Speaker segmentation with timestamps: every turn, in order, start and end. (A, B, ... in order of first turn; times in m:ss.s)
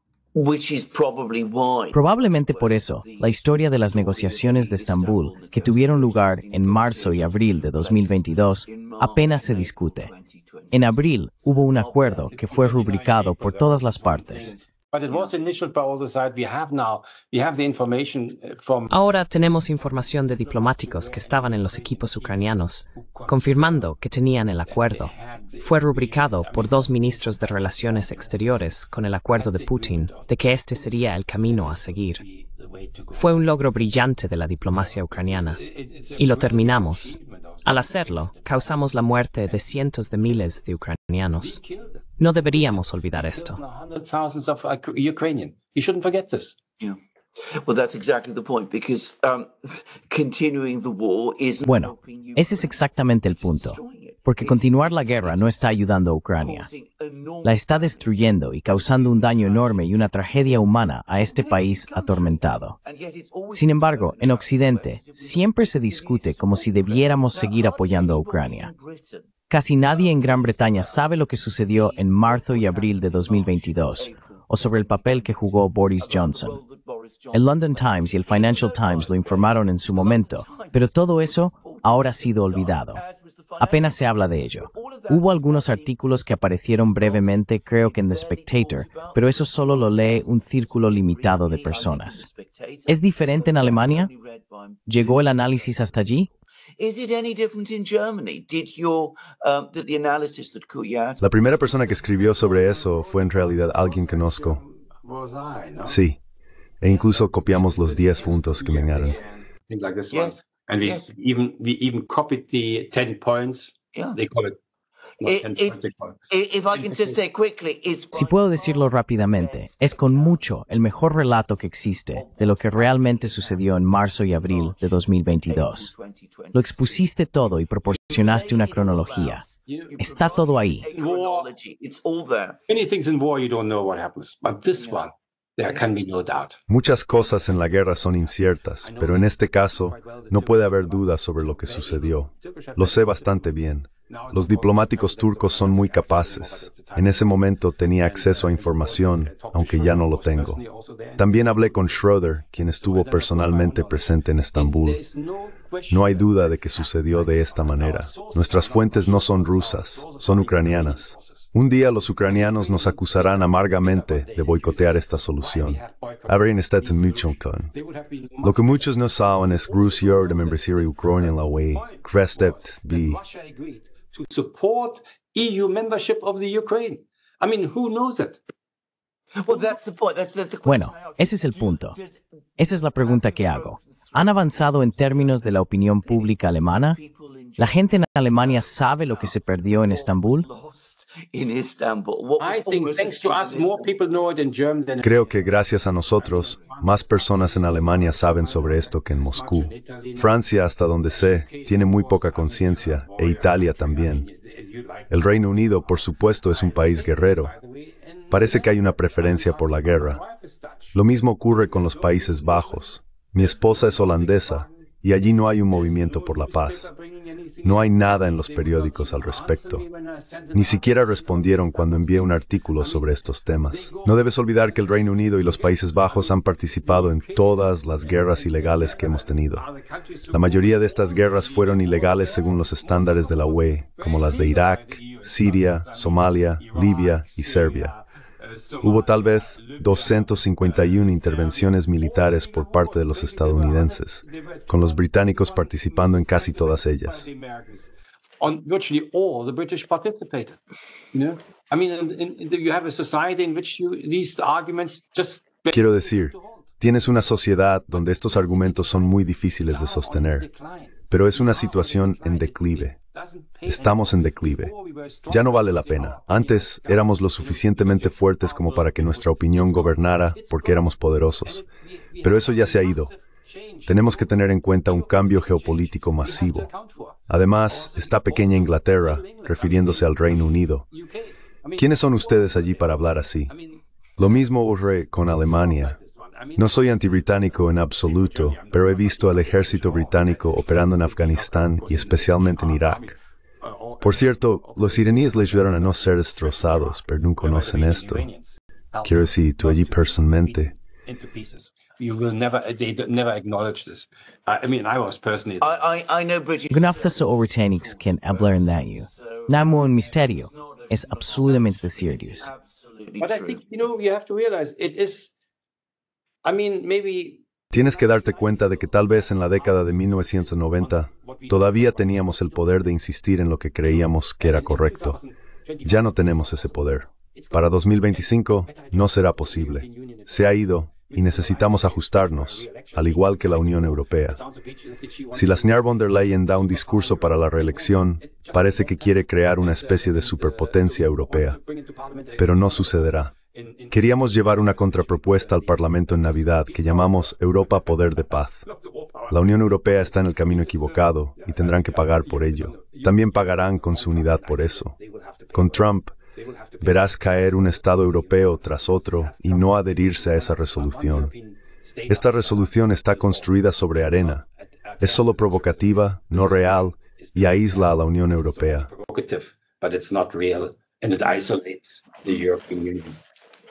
0:00.3-0:12.7 A
0:01.9-0:10.1 B
0:10.7-0:14.6 B
0:12.2-0:18.9 C
0:18.9-0:32.2 D
0:20.4-0:23.9 C
0:24.7-0:28.7 C
0:29.3-0:33.8 C
0:33.2-0:35.6 D
0:34.7-0:39.7 C
0:36.2-0:41.6 D
0:41.4-0:46.6 C
0:42.2-0:43.6 D
0:46.8-0:55.8 A
0:51.6-0:56.7 B
0:56.4-1:11.1 A
0:57.4-1:02.8 B
1:03.5-1:08.7 B
1:09.5-1:16.6 B
1:11.7-1:26.1 A
1:17.3-1:23.0 B
1:23.6-1:32.3 B
1:26.7-1:36.3 A
1:32.9-1:34.1 B
1:34.9-1:36.3 B
1:36.8-1:41.2 A
1:41.2-1:44.6 E
1:41.6-1:46.0 C
1:45.8-1:46.2 E
1:46.8-1:49.2 E
1:46.9-1:54.6 C
1:50.1-1:51.1 A
1:53.9-1:54.2 A
1:55.2-2:07.1 A
1:55.2-1:56.2 C
1:56.7-1:57.2 C
1:58.1-2:05.9 B
2:06.5-2:09.4 B
2:07.9-2:12.6 A
2:10.0-2:10.9 B
2:10.9-2:11.5 C
2:12.7-2:16.6 C
2:14.8-2:15.0 A
2:16.7-2:30.6 E
2:17.2-2:18.1 C
2:18.8-2:32.2 C
2:31.2-2:35.0 E
2:32.8-2:41.5 C
2:35.9-2:47.7 E
2:42.2-2:58.4 C
2:48.4-2:53.2 E
2:59.4-3:02.2 A
3:00.6-3:02.0 B
3:02.6-3:07.0 B
3:03.0-3:14.0 A
3:07.6-3:10.5 B
3:12.4-3:20.4 C
3:15.0-3:24.3 E
3:21.1-4:10.6 C
3:25.1-3:27.5 E
3:28.3-3:30.2 E
3:30.9-3:36.9 E
3:37.6-3:39.8 E
3:40.5-3:49.7 E
3:50.3-3:58.0 E
3:58.8-4:07.3 E
4:11.1-4:16.7 C
4:15.7-4:20.5 E
4:17.9-4:44.5 C
4:21.1-4:23.0 E
4:23.7-4:24.7 E
4:25.3-4:31.6 E
4:32.2-4:33.1 E
4:33.9-4:36.7 E
4:37.3-4:40.9 E
4:41.8-4:43.5 E
4:44.2-4:46.0 E
4:45.3-5:05.9 C
4:46.6-4:53.1 E
4:54.0-4:58.3 E
4:59.0-5:00.7 E
5:05.6-5:13.6 A
5:06.7-5:12.5 B
5:13.2-5:15.3 C
5:16.4-5:23.1 C
5:17.7-5:25.2 E
5:23.8-6:13.2 C
5:25.8-5:34.4 E
5:35.3-5:41.6 E
5:42.4-5:43.3 E
5:43.9-5:48.6 E
5:49.3-5:55.0 E
5:55.5-5:56.1 E
5:56.8-6:01.3 E
6:02.1-6:04.4 E
6:05.0-6:08.9 E